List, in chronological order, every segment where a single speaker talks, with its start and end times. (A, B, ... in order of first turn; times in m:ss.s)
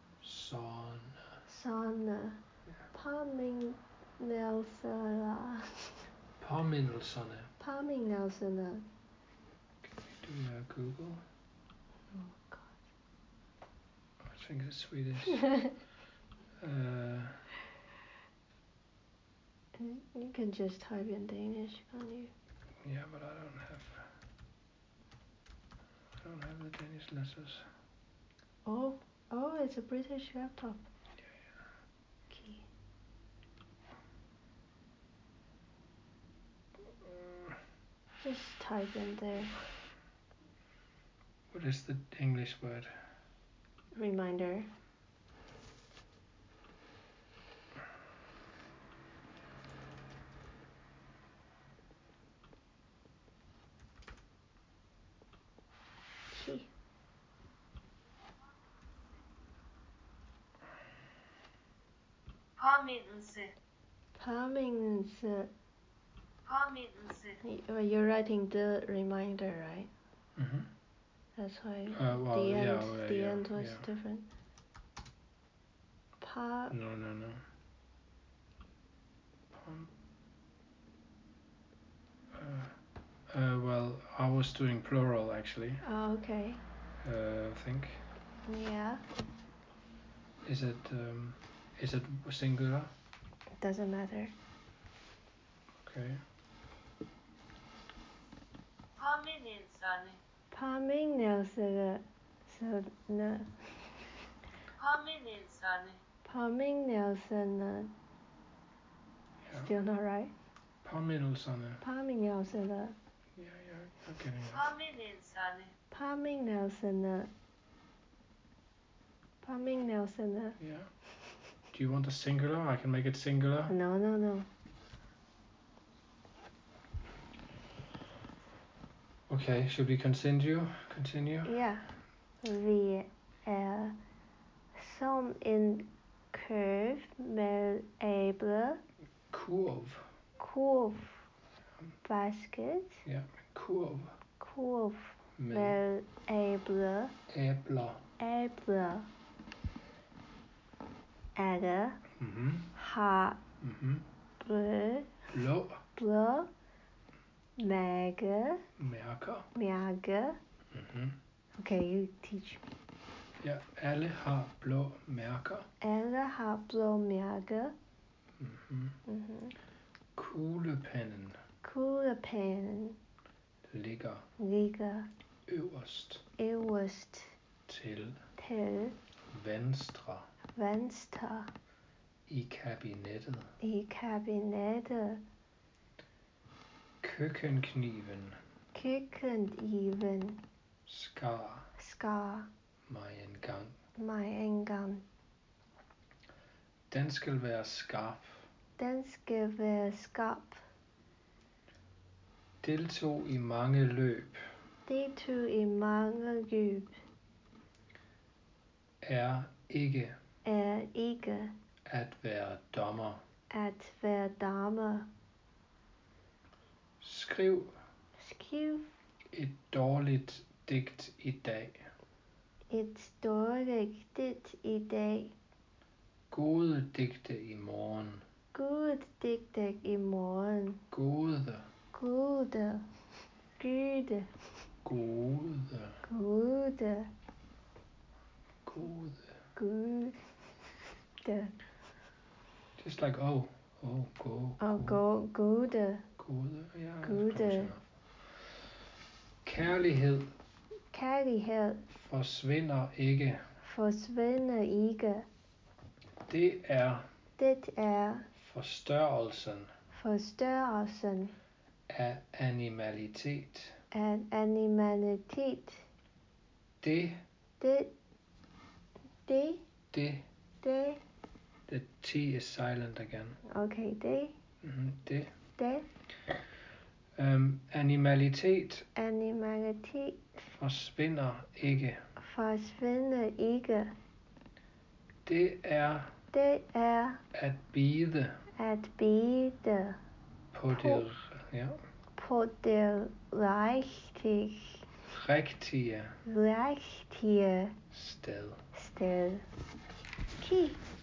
0:00.2-0:01.3 A
0:01.5-0:02.4 B
0:02.9-0:06.1 B
0:06.4-0:07.5 A
0:07.6-0:08.9 B
0:09.8-0:11.2 A
0:12.1-0:12.7 B
0:14.2-0:15.5 A
0:16.6-0:17.5 A
0:19.8-0:22.3 B
0:22.8-0:24.1 A
0:26.2-0:27.7 A
0:28.6-0:30.9 B
0:32.3-0:32.7 B
0:38.2-0:39.6 B
0:41.5-0:42.9 A
0:44.0-0:44.7 B
0:56.3-0:56.7 B
1:02.6-1:03.5 C
1:04.2-1:05.5 B
1:06.5-1:07.4 C
1:07.4-1:09.9 B
1:10.4-1:10.7 A
1:11.4-1:14.3 B
1:11.9-1:13.9 A
1:16.2-1:16.7 B
1:16.7-1:17.4 A
1:19.5-1:19.9 A
1:22.4-1:22.8 A
1:23.3-1:25.8 A
1:25.8-1:26.6 B
1:27.0-1:28.0 A
1:28.5-1:29.0 B
1:30.4-1:32.9 A
1:33.6-1:34.3 B
1:35.8-1:36.2 A
1:39.0-1:40.2 C
1:40.5-1:44.1 B
1:44.8-1:46.0 C
1:46.2-1:47.9 B
1:49.5-1:49.7 A
1:49.5-1:50.3 B
1:50.8-1:51.8 A
1:51.8-1:53.0 B
1:53.4-1:54.7 A
1:54.6-1:55.7 C
1:55.9-1:57.3 B
1:59.4-2:00.6 B
2:00.6-2:00.9 A
2:01.7-2:03.7 A
2:03.7-2:04.5 B
2:09.3-2:11.5 A
2:11.4-2:11.9 B
2:12.4-2:14.0 B
2:14.8-2:18.8 B
2:19.3-2:20.1 A
2:20.4-2:21.2 B
2:22.0-2:23.0 B
2:23.0-2:24.2 A
2:24.4-2:27.2 B
2:25.4-2:25.8 A
2:27.3-2:28.0 A
2:28.2-2:29.1 B
2:31.4-2:32.0 B
2:32.2-2:32.7 A
2:32.8-2:33.4 B
2:33.6-2:34.1 A
2:34.4-2:35.3 B
2:35.3-2:35.8 A
2:36.0-2:36.5 B
2:37.6-2:38.6 B
2:38.8-2:39.5 A
2:39.5-2:40.4 B
2:40.7-2:41.2 A
2:41.6-2:42.8 B
2:43.4-2:45.7 A
2:45.8-2:47.8 B
2:48.4-2:49.0 A
2:49.1-2:49.6 B
2:50.2-2:51.4 A
2:51.6-2:53.0 B
2:53.7-2:54.2 A
2:54.4-2:55.1 B
2:55.5-2:56.2 A
2:56.4-2:57.4 B
2:57.7-2:58.2 A
2:58.4-2:59.0 B
2:59.3-3:00.3 A
3:00.6-3:01.5 B
3:02.3-3:03.5 A
3:03.6-3:05.2 B
3:07.0-3:08.4 A
3:08.7-3:10.4 B
3:10.9-3:11.7 A
3:11.8-3:12.5 B
3:12.9-3:13.8 A
3:14.0-3:15.0 B
3:16.9-3:18.5 A
3:18.8-3:20.6 B
3:22.6-3:24.4 A
3:24.9-3:27.0 B
3:29.0-3:30.2 A
3:30.4-3:31.6 B
3:31.9-3:33.2 A
3:33.5-3:35.1 B
3:37.0-3:37.7 A
3:38.2-3:38.9 B
3:39.3-3:41.9 A
3:42.7-3:45.3 B
3:46.3-3:48.2 A
3:48.5-3:50.8 B
3:50.9-3:51.7 A
3:51.9-3:52.9 B
3:53.6-3:54.5 B
3:54.8-3:56.0 A
3:56.0-3:57.1 B
3:58.6-3:59.4 A
3:59.6-4:01.6 B
4:02.8-4:05.0 A
4:04.6-4:06.1 B
4:06.2-4:08.6 A
4:07.0-4:07.7 B
4:09.4-4:10.4 A
4:10.9-4:11.9 B
4:12.0-4:13.4 A
4:13.6-4:15.3 B
4:16.3-4:17.1 A
4:17.4-4:18.3 B
4:18.4-4:19.7 A
4:19.9-4:21.4 B
4:21.9-4:23.8 A
4:23.9-4:25.9 B
4:26.8-4:27.2 A
4:27.6-4:27.9 B
4:29.2-4:29.6 B
4:29.9-4:30.3 A
4:30.6-4:31.0 B
4:31.7-4:33.4 A
4:33.5-4:34.4 B
4:34.6-4:35.4 A
4:35.6-4:35.9 B
4:37.2-4:38.9 A
4:39.0-4:40.3 B
4:40.4-4:42.0 A
4:42.2-4:44.0 B
4:45.3-4:46.1 A
4:46.3-4:47.2 B
4:47.3-4:48.4 A
4:48.6-4:50.0 B
4:50.5-4:51.8 A
4:50.7-4:51.0 B
4:52.2-4:54.9 B
4:55.1-4:56.2 A
4:56.2-4:57.8 B
4:57.9-4:58.6 A
4:58.7-4:59.5 B
5:00.4-5:00.8 B